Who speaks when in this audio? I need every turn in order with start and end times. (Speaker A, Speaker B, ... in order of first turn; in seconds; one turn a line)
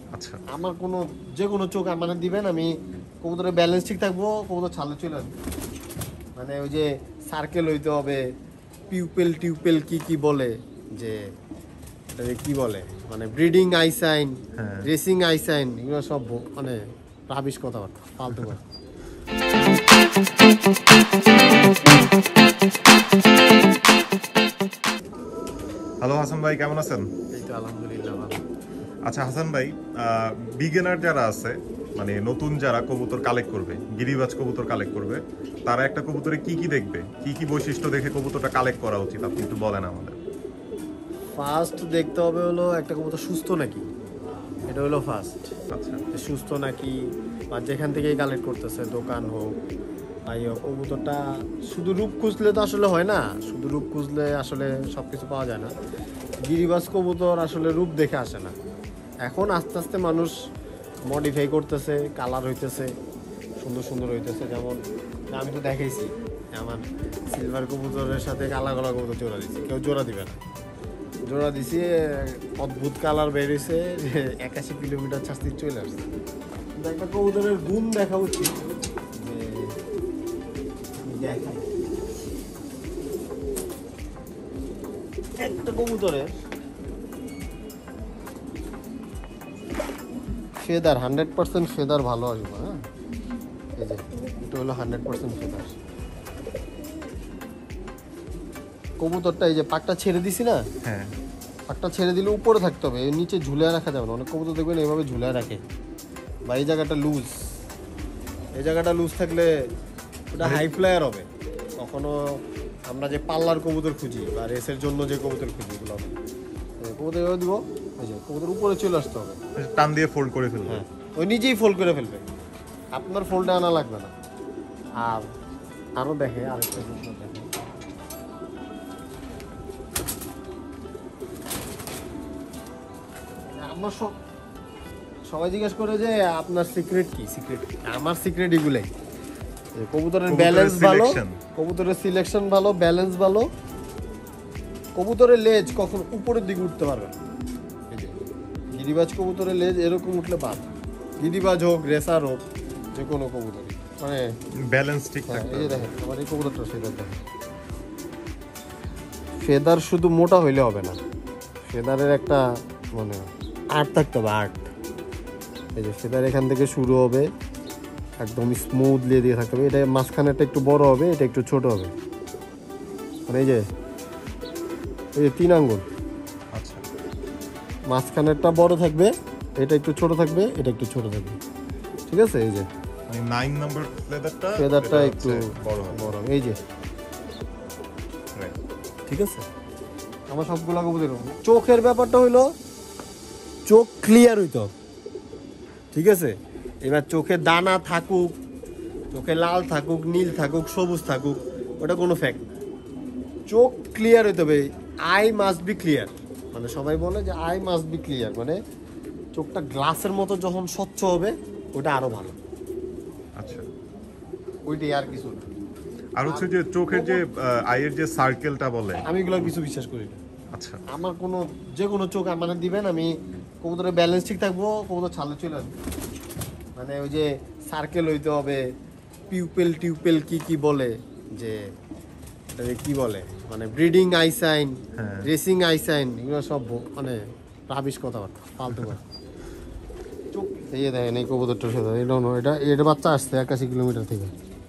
Speaker A: 0.1-0.4
Speaker B: 0.5-5.3
Speaker B: 6.4-8.2
Speaker B: 8.9-11.2
Speaker B: 12.2-18.6
Speaker A: 14.6-14.9
Speaker A: 26.0-27.1
Speaker B: 27.3-28.4
Speaker A: 29.1-40.2
Speaker B: 41.3-43.9
Speaker B: 44.7-45.4
Speaker A: 45.7-46.0
Speaker B: 46.1-47.0
Speaker B: 47.5-49.6
Speaker B: 50.3-55.7
Speaker B: 56.5-58.5
Speaker B: 59.2-60.3
Speaker B: 61.1-62.9
Speaker B: 63.6-64.8
Speaker B: 65.3-70.4
Speaker B: 71.3-76.1
Speaker B: 76.8-78.6
Speaker B: 79.1-79.8
Speaker B: 81.0-81.7
Speaker B: 85.4-86.3
Speaker B: 90.6-92.8
Speaker B: 93.8-95.8
Speaker B: 99.0-100.7
Speaker A: 100.8-101.1
Speaker B: 101.7-105.6
Speaker B: 106.5-107.5
Speaker B: 108.5-109.7
Speaker B: 110.3-111.3
Speaker A: 110.4-110.7
Speaker B: 111.8-116.2
Speaker B: 116.8-119.4
Speaker A: 119.6-120.8
Speaker B: 120.7-122.2
Speaker B: 122.9-124.1
Speaker B: 125.0-125.3
Speaker B: 126.0-127.5
Speaker B: 133.5-134.1
Speaker B: 135.3-138.9
Speaker B: 139.8-143.5
Speaker A: 140.3-141.4
Speaker B: 145.0-147.2
Speaker B: 147.9-148.2
Speaker B: 148.7-154.3
Speaker A: 154.7-155.9
Speaker B: 155.3-157.2
Speaker B: 159.4-161.0
Speaker B: 161.7-162.4
Speaker B: 162.9-164.7
Speaker B: 165.8-167.3
Speaker B: 168.2-171.9
Speaker B: 173.3-173.7
Speaker B: 175.2-175.9
Speaker A: 176.5-176.8
Speaker B: 177.9-181.4
Speaker B: 182.1-182.7
Speaker A: 183.1-186.1
Speaker B: 184.6-186.6
Speaker B: 189.1-189.5
Speaker B: 190.3-192.5
Speaker B: 193.7-194.7
Speaker B: 195.9-198.3
Speaker B: 199.1-202.5
Speaker B: 203.5-208.6
Speaker B: 209.3-212.4
Speaker A: 213.4-213.7
Speaker B: 214.7-215.5
Speaker A: 216.2-219.1
Speaker B: 216.3-217.2
Speaker B: 219.1-220.2
Speaker A: 220.5-220.8
Speaker B: 220.9-225.8
Speaker B: 226.8-228.6
Speaker B: 229.3-231.7
Speaker B: 232.6-239.0
Speaker A: 235.0-235.3
Speaker A: 238.7-239.0
Speaker B: 240.3-244.3